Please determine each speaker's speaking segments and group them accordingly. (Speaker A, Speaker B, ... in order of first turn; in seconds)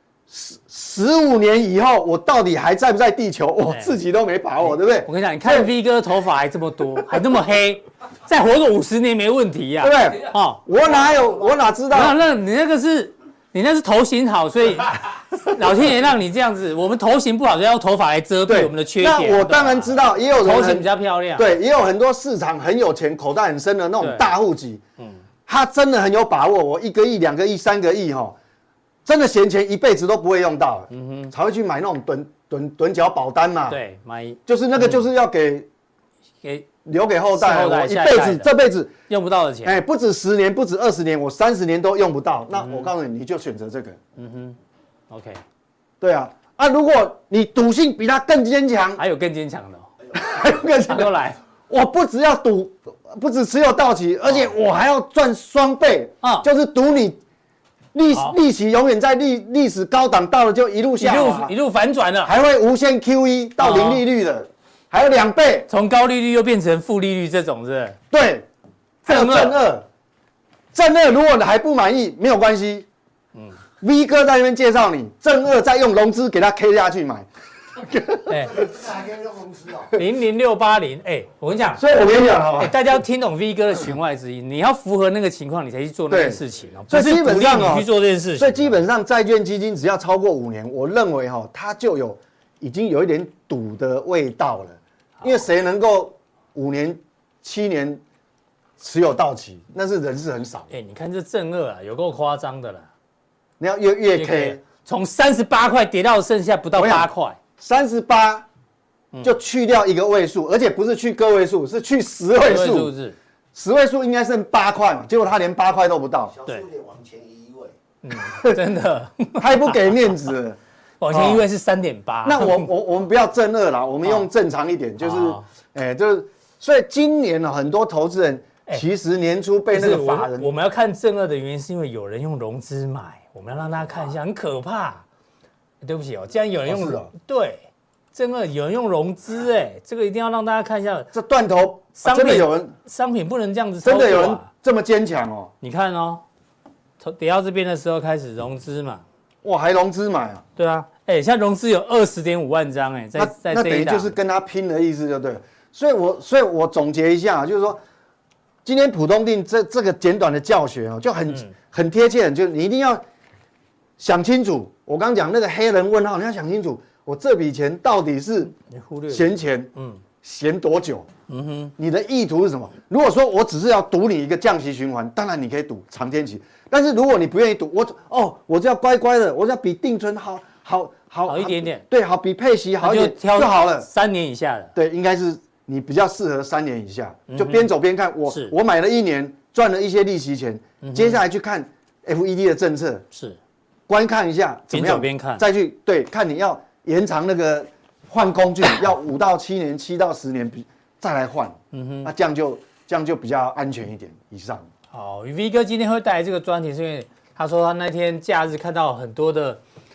Speaker A: 0.3-5.7, 9.8-12.2, 18.5-24.8, 25.5-28.4, 29.1-33.8, 34.5-35.7, 36.9-38.9, 39.6-44.0, 46.0-49.0, 50.1-51.1, 51.7-57.2, 57.9-61.5, 62.2-65.7, 68.1-68.5, 69.0-69.9, 70.7-72.9, 73.8-78.6, 81.8-82.8, 86.1-98.0, 98.8-100.7, 103.6-104.6, 106.8-108.5, 109.2-112.9, 113.5-116.3, 118.2-118.6, 119.4-120.6, 121.1-121.4, 122.2-130.5, 136.7-137.1, 141.1-142.7, 143.8-145.5, 149.4-150.4, 153.2-157.8, 158.7-163.0, 164.0-168.5, 169.1-171.1, 171.8-183.9, 184.8-193.1, 193.9-204.7
Speaker B: 3.7-4.0, 4.7-10.6, 11.9-21.6, 24.0-24.3, 30.9-31.3, 33.7-35.0, 37.3-38.5, 39.1-39.8, 42.6-42.9, 44.2-44.6, 45.1-45.4, 49.0-49.9, 50.9-51.4, 56.2-56.5, 61.0-62.3, 63.6-64.0, 65.7-68.0, 69.1-69.6, 78.3-78.7, 79.9-81.8, 82.6-88.8, 100.7-102.9, 104.2-107.4, 112.4-113.2, 118.0-120.1, 121.0-122.7, 125.0-125.5, 129.7-135.1, 135.8-141.1, 142.0-144.5, 145.6-146.2, 147.0-149.0, 150.6-154.2, 168.6-170.0, 171.3-171.7, 181.3-181.8, 182.8-184.7, 187.3-187.7, 188.3-188.5, 190.8-191.2, 193.1-193.4, 194.7-195.4, 201.7-202.1, 204.9-209.6
Speaker C: 78.6-79.9, 116.3-117.7